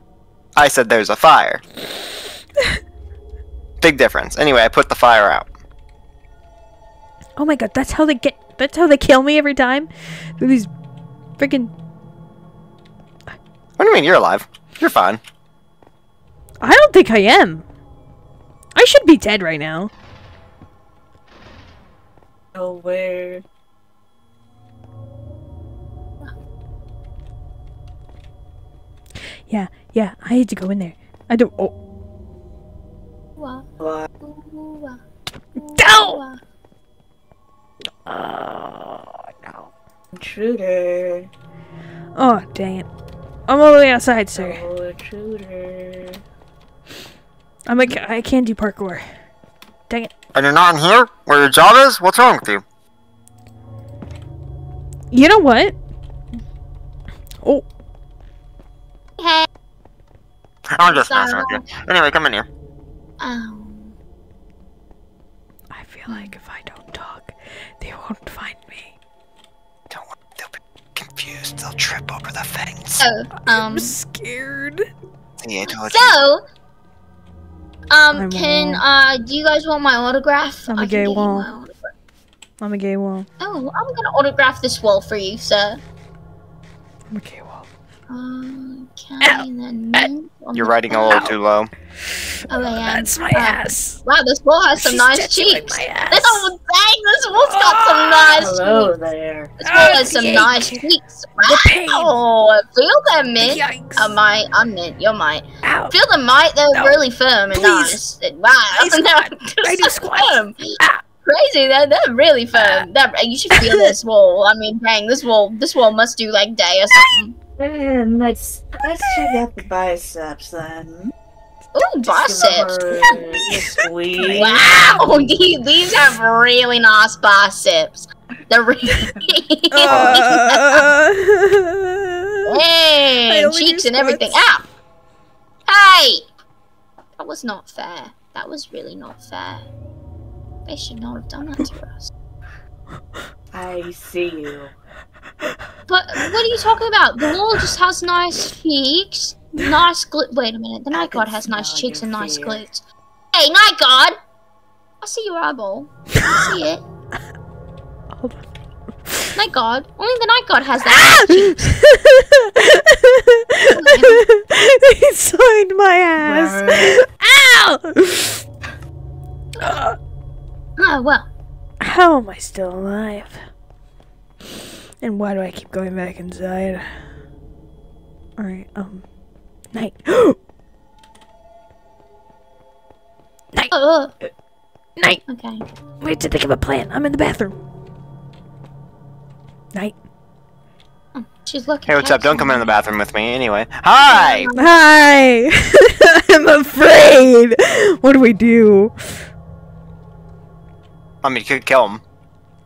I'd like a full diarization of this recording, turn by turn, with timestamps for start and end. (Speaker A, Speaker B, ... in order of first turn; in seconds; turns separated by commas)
Speaker A: 0.6-1.6, Speaker A: 3.8-5.5, Speaker B: 7.4-10.7, Speaker B: 11.4-11.7, Speaker A: 13.8-15.2, Speaker B: 16.6-17.6, Speaker B: 18.7-19.9, Speaker C: 22.5-23.4, Speaker B: 29.5-31.7, Speaker D: 33.4-33.7, Speaker D: 34.2-35.0, Speaker D: 35.6-36.4, Speaker B: 35.8-36.2, Speaker B: 38.0-39.7, Speaker C: 40.1-41.3, Speaker B: 42.1-42.9, Speaker B: 43.5-44.6, Speaker C: 44.3-46.2, Speaker B: 47.6-49.0, Speaker A: 50.3-52.6, Speaker B: 55.1-55.8, Speaker D: 59.2-59.5, Speaker A: 60.7-62.5, Speaker D: 60.8-61.6, Speaker D: 63.2-63.9, Speaker B: 65.7-68.9, Speaker A: 69.9-73.0, Speaker D: 73.0-74.0, Speaker B: 73.5-74.9, Speaker A: 75.4-76.2, Speaker D: 75.7-76.4, Speaker D: 77.9-81.9, Speaker B: 78.1-78.8, Speaker B: 80.7-81.5, Speaker B: 82.6-83.3, Speaker D: 83.4-85.8, Speaker B: 87.1-87.7, Speaker D: 88.1-91.3, Speaker B: 89.2-90.1, Speaker A: 90.5-91.7, Speaker B: 91.1-91.3, Speaker D: 92.5-98.9, Speaker B: 92.5-94.0, Speaker B: 94.8-96.5, Speaker B: 97.5-98.5, Speaker C: 98.4-99.5, Speaker D: 99.6-117.3, Speaker B: 99.6-100.8, Speaker B: 101.4-102.2, Speaker B: 103.4-104.2, Speaker B: 105.6-105.9, Speaker B: 106.7-107.0, Speaker B: 107.5-108.0, Speaker B: 108.7-111.0, Speaker B: 112.5-112.8, Speaker B: 113.5-113.9, Speaker C: 117.6-121.1, Speaker B: 119.1-119.3, Speaker D: 121.7-123.7, Speaker C: 122.0-124.6, Speaker B: 123.1-125.1, Speaker D: 124.2-130.9, Speaker B: 129.7-132.6, Speaker A: 129.9-130.2, Speaker D: 132.4-134.6, Speaker B: 133.2-134.3, Speaker D: 135.7-136.2, Speaker D: 137.2-139.6, Speaker D: 140.7-142.1, Speaker C: 143.5-144.7, Speaker D: 145.9-154.2, Speaker C: 150.9-152.6, Speaker D: 155.0-156.8, Speaker B: 158.1-158.4, Speaker D: 159.3-161.7, Speaker B: 160.8-168.4, Speaker D: 163.7-164.2, Speaker C: 166.2-167.0, Speaker B: 169.6-169.9, Speaker D: 170.8-171.2, Speaker B: 171.8-173.4, Speaker B: 175.0-177.0, Speaker B: 178.4-179.0, Speaker B: 179.7-180.4, Speaker D: 183.7-184.1, Speaker B: 185.0-185.2, Speaker D: 185.3-185.6, Speaker B: 186.0-187.6, Speaker D: 191.1-192.7, Speaker A: 191.9-194.5, Speaker D: 194.1-194.7, Speaker B: 194.6-199.2, Speaker A: 201.2-202.0